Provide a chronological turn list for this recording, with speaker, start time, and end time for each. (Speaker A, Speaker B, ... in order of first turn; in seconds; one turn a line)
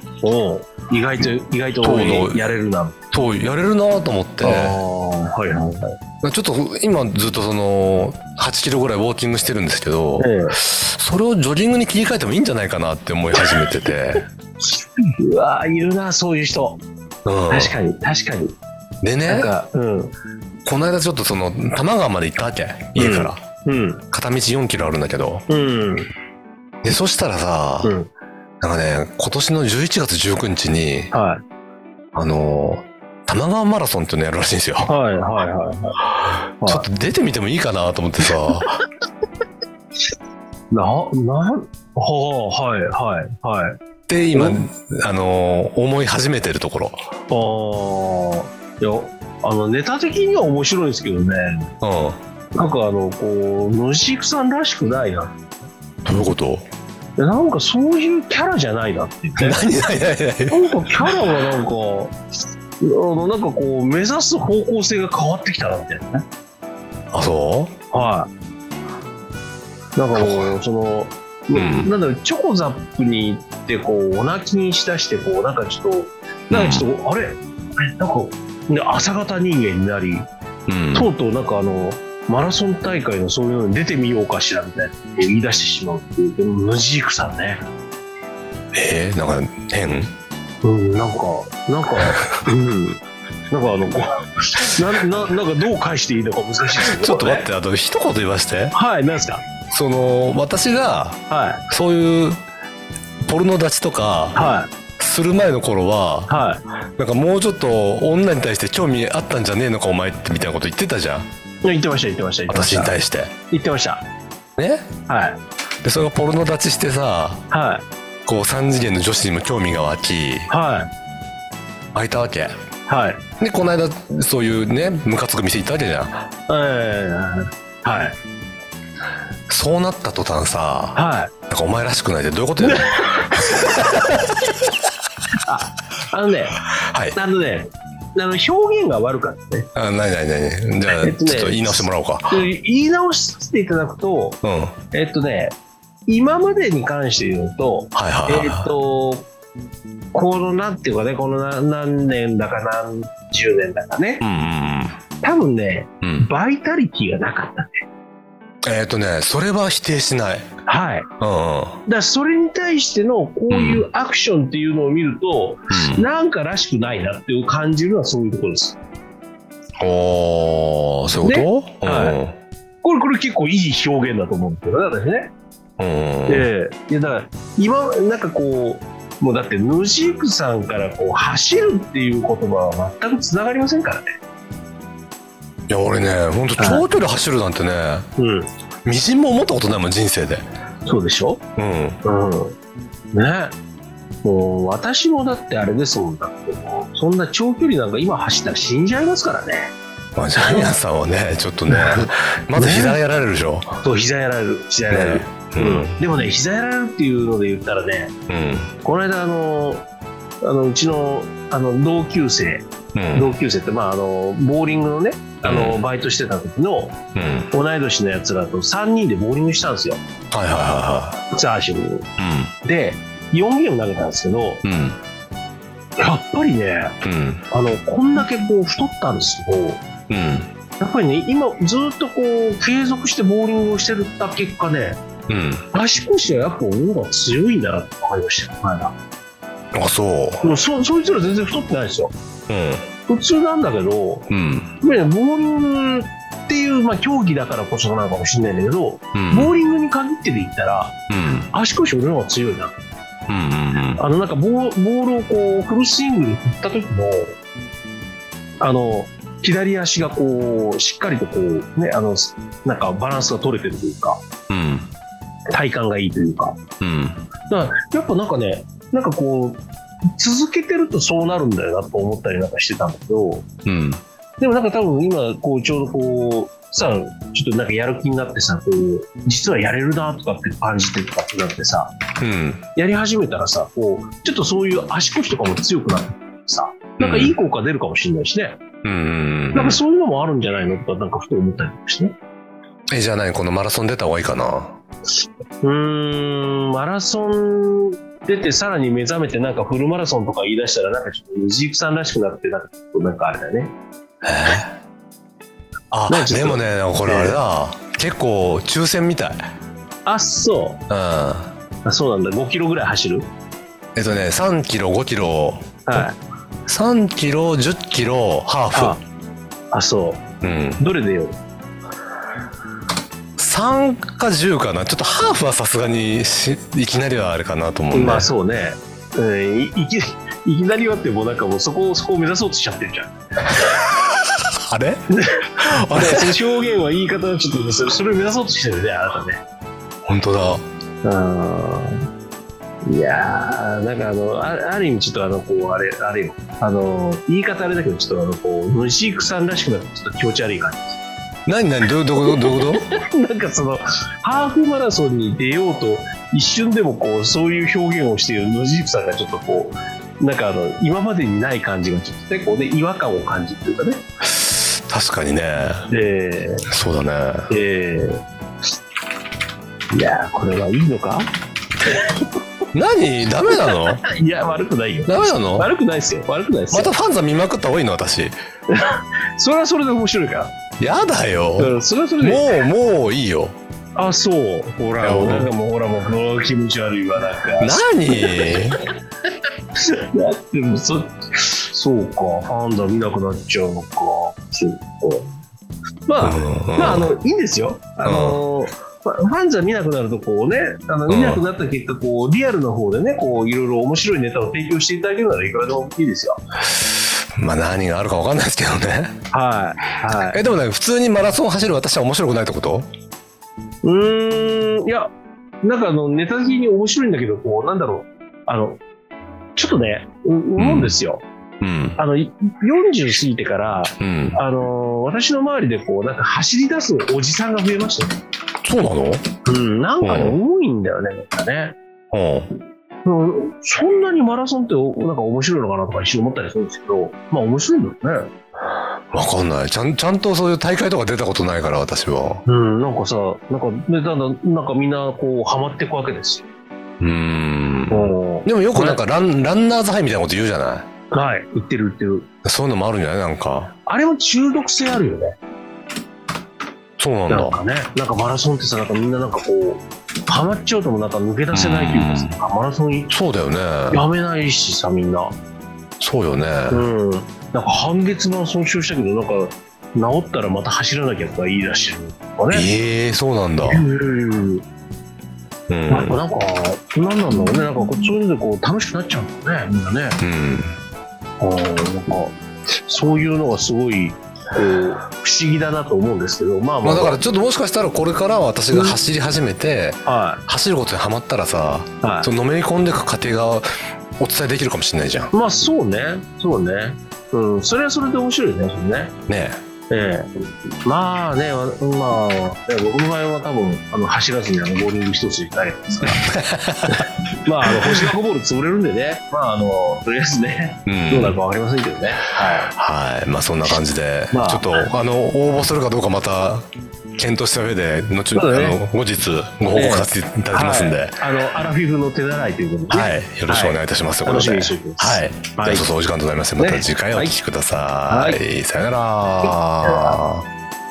Speaker A: 0.2-3.0
Speaker B: 1.8-2.4
Speaker B: 3.1-4.8
Speaker A: 4.4-6.0
Speaker B: 6.2-14.3
Speaker A: 10.2-10.6
Speaker A: 15.2-16.8
Speaker B: 17.2-17.8
Speaker A: 17.5-18.6
Speaker B: 19.0-19.5
Speaker A: 19.3-20.1
Speaker B: 20.7-23.4
Speaker A: 23.0-24.0
Speaker B: 24.1-25.4
Speaker A: 25.5-26.1
Speaker B: 26.8-28.0
Speaker A: 27.8-28.1
Speaker B: 28.6-31.1
Speaker A: 31.1-31.4
Speaker B: 32.1-34.9
Speaker A: 34.9-36.0
Speaker B: 36.1-38.8
Speaker A: 40.7-43.8
Speaker B: 44.1-47.0
Speaker A: 44.3-44.6
Speaker A: 47.3-51.7
Speaker B: 51.8-52.2
Speaker A: 52.5-55.4
Speaker B: 56.0-56.7
Speaker A: 57.2-59.6
Speaker B: 59.4-61.3
Speaker A: 60.5-62.2
Speaker A: 62.8-66.2
Speaker B: 67.1-67.7
Speaker A: 67.9-68.3
Speaker A: 70.0-80.3
Speaker B: 70.2-70.5
Speaker B: 71.5-71.9
Speaker B: 76.5-76.9
Speaker B: 80.7-81.1
Speaker A: 80.9-87.6
Speaker B: 88.7-90.1
Speaker A: 90.6-97.5
Speaker B: 96.8-98.8
Speaker A: 98.7-99.4
Speaker B: 99.7-102.4
Speaker A: 101.3-101.6
Speaker B: 103.3-104.4
Speaker A: 104.3-104.7
Speaker B: 105.0-106.3
Speaker A: 106.3-106.6
Speaker B: 107.0-111.3
Speaker A: 111.6-112.9
Speaker B: 112.5-113.3
Speaker A: 113.5-114.0
Speaker B: 114.6-114.9
Speaker A: 115.1-115.4
Speaker B: 115.8-117.4
Speaker A: 117.5-117.8
Speaker B: 118.3-120.5
Speaker A: 120.5-120.9
Speaker B: 121.9-122.6
Speaker A: 122.9-123.2
Speaker B: 123.4-126.3
Speaker A: 126.5-128.2
Speaker B: 129.5-134.2
Speaker A: 130.9-131.3
Speaker A: 132.6-133.8
Speaker A: 135.4-136.6
Speaker B: 136.7-137.2
Speaker A: 137.2-139.7
Speaker B: 139.8-142.4
Speaker A: 140.9-144.4
Speaker B: 144.4-144.8
Speaker A: 144.9-145.6
Speaker A: 146.1-149.3
Speaker B: 147.9-148.7
Speaker A: 150.1-154.2
Speaker B: 154.2-155.0
Speaker A: 155.2-157.8
Speaker B: 156.0-156.3
Speaker B: 158.6-160.5
Speaker A: 160.7-161.1
Speaker B: 161.2-161.8
Speaker A: 161.9-168.8
Speaker B: 163.5-163.8
Speaker B: 165.7-166.0
Speaker B: 169.8-172.4
Speaker A: 171.2-172.2
Speaker A: 172.8-175.3
Speaker B: 175.8-176.5
Speaker A: 176.3-184.1
Speaker B: 185.7-188.1
Speaker A: 186.6-186.8
Speaker A: 188.2-188.5
Speaker B: 188.8-190.4
Speaker A: 190.9-191.4
Speaker B: 191.6-192.0
Speaker A: 192.0-192.6
Speaker A: 193.1-193.5
Speaker A: 194.2-199.8
Speaker B: 200.2-203.8
Speaker A: 200.3-200.7
Speaker A: 201.7-203.0
Speaker A: 203.8-208.1
Speaker B: 204.9-206.0
Speaker B: 208.3-208.7
Speaker A: 208.8-209.9
Speaker A: 210.4-217.0
Speaker B: 212.9-213.3
Speaker B: 215.4-215.8
Speaker B: 217.2-217.5
Speaker A: 217.5-220.0
Speaker B: 220.3-221.2
Speaker A: 221.3-222.1
Speaker B: 222.2-222.5
Speaker A: 222.6-224.6
Speaker B: 224.6-225.0
Speaker A: 226.0-227.0
Speaker B: 227.0-227.4
Speaker A: 227.5-229.8
Speaker B: 230.1-230.5
Speaker A: 230.8-235.0
Speaker B: 235.3-235.7
Speaker A: 235.7-238.9
Speaker B: 239.8-240.5
Speaker A: 240.4-242.1
Speaker B: 242.5-242.9
Speaker A: 243.1-244.3
Speaker B: 244.3-244.7
Speaker A: 244.8-251.0
Speaker B: 249.2-249.5
Speaker B: 251.1-251.5
Speaker A: 251.5-252.7
Speaker B: 253.3-254.0
Speaker A: 254.0-257.4
Speaker A: 258.6-264.2
Speaker B: 264.5-264.9
Speaker A: 265.5-266.6
Speaker B: 266.8-267.2
Speaker A: 267.5-269.6
Speaker A: 270.2-273.5
Speaker B: 273.6-274.0
Speaker A: 274.4-281.9
Speaker B: 282.2-282.6
Speaker A: 282.8-288.6
Speaker B: 287.0-287.4
Speaker B: 288.8-289.8
Speaker A: 289.5-292.1
Speaker B: 292.9-294.8
Speaker A: 295.6-303.8
Speaker B: 304.2-304.8
Speaker B: 305.9-309.4
Speaker A: 306.1-307.4
Speaker A: 310.1-310.8
Speaker B: 310.9-311.5
Speaker A: 311.9-313.3
Speaker B: 313.9-315.7
Speaker A: 315.9-316.2
Speaker B: 316.7-319.0
Speaker A: 318.7-319.0
Speaker A: 319.7-320.2
Speaker B: 320.4-320.8
Speaker A: 320.8-321.4
Speaker B: 323.4-328.3
Speaker A: 327.9-333.2
Speaker B: 334.7-335.1
Speaker A: 335.1-339.4
Speaker B: 335.6-336.3
Speaker B: 340.1-340.6
Speaker A: 341.0-342.0
Speaker A: 342.9-351.0
Speaker B: 351.5-352.9
Speaker A: 352.2-364.0
Speaker B: 364.2-365.9
Speaker A: 365.9-366.6
Speaker B: 366.7-367.5
Speaker A: 367.5-368.2
Speaker A: 369.9-371.3
Speaker A: 371.9-372.3
Speaker B: 372.7-374.0
Speaker A: 373.5-376.9
Speaker B: 375.1-375.7
Speaker B: 376.7-378.4
Speaker A: 378.7-380.5
Speaker B: 380.8-383.6
Speaker A: 381.6-382.6
Speaker A: 384.0-388.6
Speaker B: 385.0-385.5
Speaker B: 387.6-388.8
Speaker A: 389.8-395.3
Speaker A: 396.1-406.4
Speaker B: 396.2-397.2
Speaker B: 398.1-398.4
Speaker B: 401.1-401.4
Speaker B: 406.8-409.2
Speaker A: 409.3-410.4
Speaker B: 410.2-412.9
Speaker A: 413.8-415.1
Speaker A: 415.6-418.8
Speaker A: 419.6-421.2
Speaker B: 420.6-421.0
Speaker B: 421.6-422.0
Speaker A: 422.0-428.2
Speaker B: 424.0-424.4
Speaker B: 428.6-429.2
Speaker A: 429.4-431.8
Speaker B: 430.0-430.4
Speaker B: 432.1-432.5
Speaker A: 433.0-438.3
Speaker B: 439.1-442.4
Speaker A: 442.5-446.4
Speaker B: 447.0-450.9
Speaker A: 447.9-449.0
Speaker A: 451.1-452.3
Speaker B: 452.4-453.7
Speaker A: 453.9-455.4
Speaker B: 457.0-457.6
Speaker A: 457.3-463.1
Speaker B: 461.5-462.4
Speaker B: 463.1-464.1
Speaker A: 463.9-465.4
Speaker B: 466.0-466.9
Speaker A: 466.7-472.7
Speaker B: 472.5-473.9
Speaker A: 473.6-474.6
Speaker B: 475.7-476.2
Speaker A: 475.9-480.2
Speaker B: 480.2-480.8
Speaker A: 481.4-487.2
Speaker B: 486.8-493.7
Speaker A: 488.7-489.0
Speaker A: 490.1-490.4
Speaker A: 492.0-492.3
Speaker B: 494.2-495.3
Speaker A: 495.3-499.1
Speaker B: 499.3-499.6
Speaker A: 499.9-500.3
Speaker A: 500.8-506.3
Speaker B: 506.2-507.1
Speaker A: 506.9-512.7
Speaker B: 507.7-508.1
Speaker B: 510.9-511.4
Speaker B: 512.7-516.7
Speaker A: 514.3-514.9
Speaker B: 517.2-521.2
Speaker A: 518.3-518.8
Speaker A: 519.7-525.9
Speaker B: 522.9-530.5
Speaker A: 526.6-527.4
Speaker A: 528.1-528.4
Speaker A: 529.4-530.2